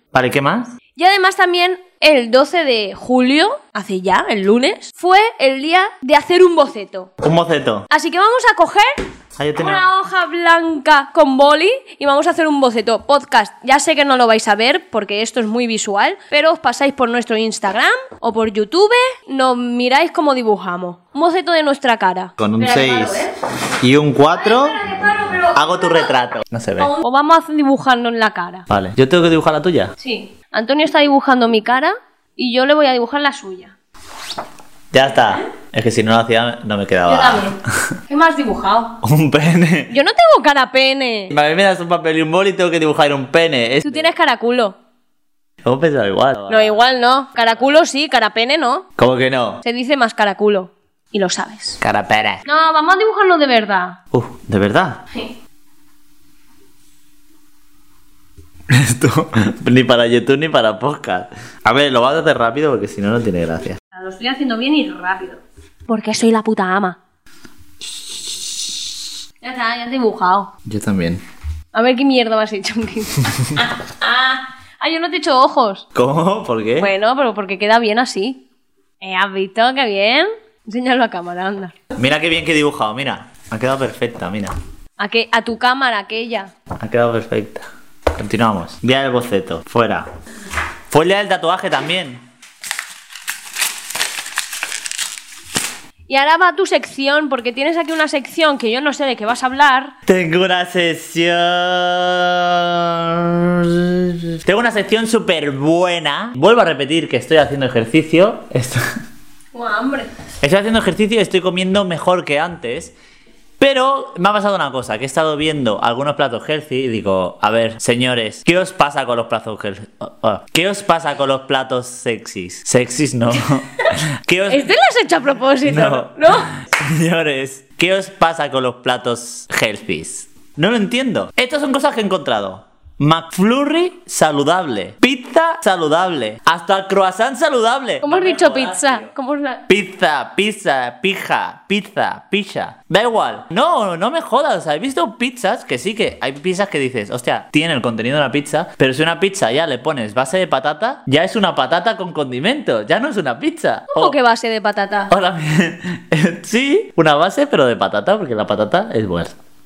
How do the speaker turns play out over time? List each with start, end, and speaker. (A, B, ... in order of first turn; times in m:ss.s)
0:00.1-0:00.8 A
0:01.0-0:07.1 B
0:07.2-0:07.9 A
0:07.9-0:08.9 B
0:09.4-0:09.9 A
0:09.6-0:23.3 B
0:22.4-0:23.3 A
0:23.8-0:24.8 A
0:24.4-0:26.0 B
0:25.5-0:26.9 A
0:26.8-0:28.7 B
0:28.7-0:30.0 A
0:30.0-0:33.8 B
0:34.9-0:37.6 A
0:37.1-0:37.6 B
0:38.1-0:39.0 B
0:39.0-0:39.9 A
0:39.9-0:41.3 B
0:41.3-0:44.1 A
0:43.8-0:44.8 B
0:45.6-0:46.8 A
0:46.5-0:48.9 B
0:49.0-0:49.6 A
0:49.6-0:51.8 B
0:51.8-0:52.4 A
0:52.4-0:54.0 B
0:54.1-0:55.0 A
0:58.7-1:03.8 A
1:03.9-1:07.0 B
1:09.4-1:10.5 B
1:10.6-1:11.2 A
1:11.7-1:15.8 B
1:16.0-1:16.9 A
1:16.8-1:18.4 B
1:19.0-1:21.7 B
1:22.0-1:24.5 A
1:25.0-1:26.5 B
1:26.8-1:30.1 A
1:30.9-1:32.3 A
1:36.1-1:39.9 B
1:40.1-1:48.8 A
1:49.5-1:50.1 B
1:50.4-1:53.0 A
1:53.6-2:04.7 A
2:04.5-2:06.5 B
2:05.6-2:19.1 A
2:18.0-2:19.6 B
2:19.7-2:34.2 A
2:33.9-2:35.1 B
2:35.1-2:39.4 A